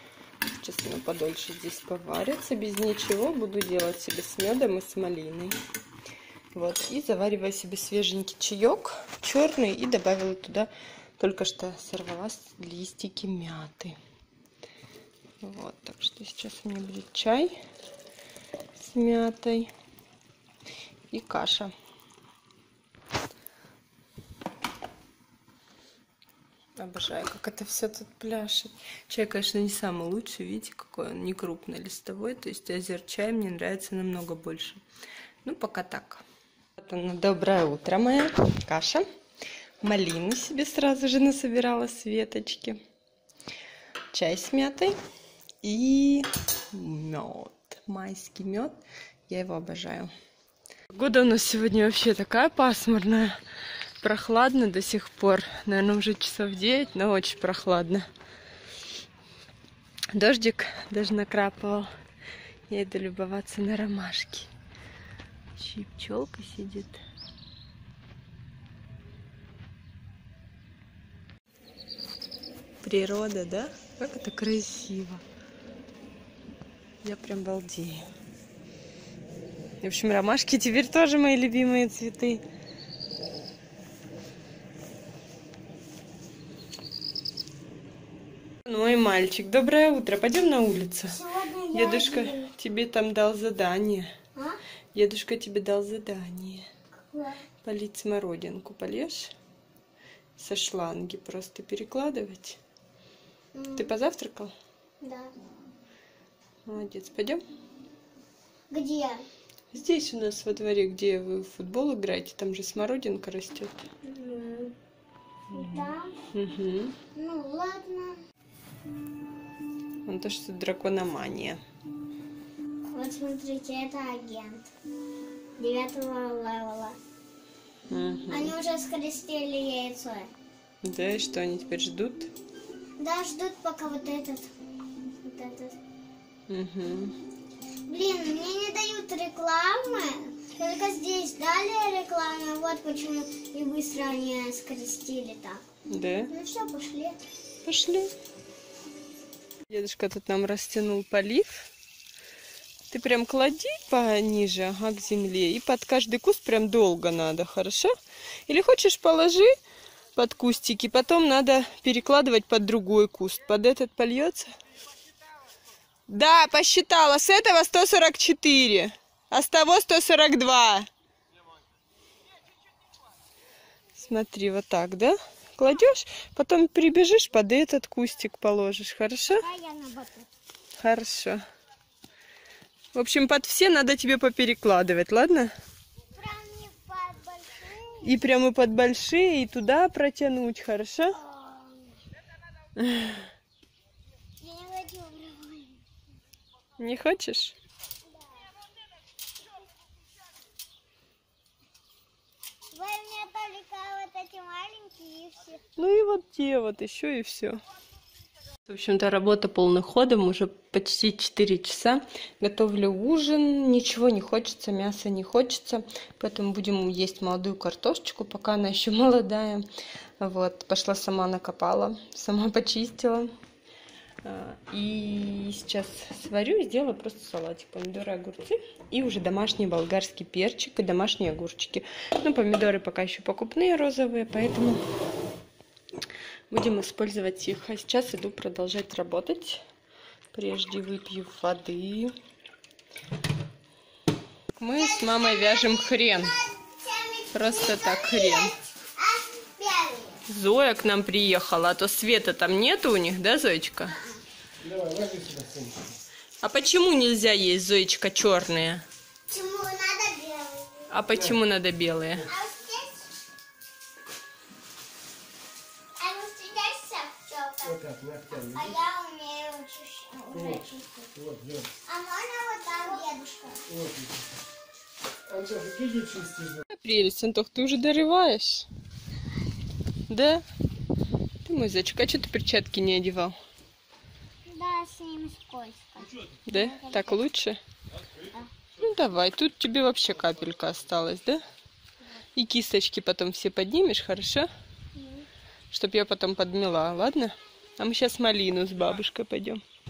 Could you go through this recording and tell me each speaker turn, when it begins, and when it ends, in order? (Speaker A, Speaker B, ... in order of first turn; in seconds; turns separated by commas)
Speaker A: 0.6-5.5, Speaker A: 6.5-14.0, Speaker A: 15.4-17.5, Speaker A: 18.7-19.7, Speaker A: 21.1-21.7, Speaker A: 26.8-34.8, Speaker A: 35.4-36.2, Speaker A: 36.8-39.0, Speaker A: 39.8-42.8, Speaker A: 44.1-45.0, Speaker A: 45.6-50.1, Speaker A: 50.9-53.4, Speaker A: 54.0-58.0, Speaker A: 60.1-61.9, Speaker A: 62.7-64.5, Speaker A: 65.5-67.0, Speaker A: 72.8-75.2, Speaker A: 77.0-78.0, Speaker A: 79.8-82.4, Speaker A: 88.6-91.2, Speaker B: 91.1-92.5, Speaker A: 91.7-94.1, Speaker A: 94.9-96.7, Speaker B: 97.1-97.4, Speaker A: 97.6-99.3, Speaker A: 100.4-102.6, Speaker B: 103.5-103.9, Speaker A: 103.8-104.5, Speaker B: 105.0-105.3, Speaker A: 106.7-107.4, Speaker B: 108.7-109.2, Speaker A: 109.7-113.8, Speaker B: 114.0-114.7, Speaker B: 115.5-116.1, Speaker A: 115.5-117.0, Speaker B: 117.1-118.2, Speaker A: 120.0-121.6, Speaker B: 122.9-124.7, Speaker B: 125.6-127.0, Speaker A: 127.9-128.5, Speaker B: 128.3-130.3, Speaker A: 130.8-132.3, Speaker B: 133.0-134.5, Speaker B: 135.0-135.8, Speaker A: 136.5-137.2, Speaker B: 137.9-145.6, Speaker A: 145.9-146.3, Speaker B: 146.3-147.2, Speaker A: 147.6-148.1, Speaker A: 149.7-151.7, Speaker A: 152.9-157.9, Speaker A: 158.5-159.5, Speaker A: 160.2-164.5, Speaker A: 166.1-170.9, Speaker A: 173.9-179.4, Speaker B: 179.4-180.3, Speaker A: 180.8-181.4, Speaker A: 182.9-185.5, Speaker B: 186.2-188.1, Speaker A: 188.0-191.2, Speaker B: 191.1-192.0, Speaker A: 192.8-193.2, Speaker B: 194.4-195.8, Speaker A: 196.8-197.6, Speaker B: 202.7-205.6, Speaker A: 205.8-207.6, Speaker A: 208.7-219.7, Speaker A: 220.2-223.3, Speaker A: 224.2-234.8, Speaker A: 236.5-239.6, Speaker A: 240.3-242.1, Speaker A: 244.6-246.4, Speaker B: 244.8-250.2, Speaker A: 247.3-248.5, Speaker A: 250.3-253.9, Speaker B: 253.9-254.2, Speaker C: 254.7-255.7, Speaker A: 256.4-258.8, Speaker B: 259.3-260.9, Speaker A: 260.9-262.3, Speaker B: 262.2-263.2, Speaker B: 266.0-271.2, Speaker B: 271.8-273.6, Speaker C: 275.4-276.3, Speaker A: 276.7-278.7, Speaker A: 280.1-280.4, Speaker A: 281.4-283.4, Speaker B: 284.4-287.2, Speaker A: 286.4-287.6, Speaker A: 288.8-291.4, Speaker A: 292.3-294.5, Speaker B: 294.9-295.3, Speaker A: 295.7-299.6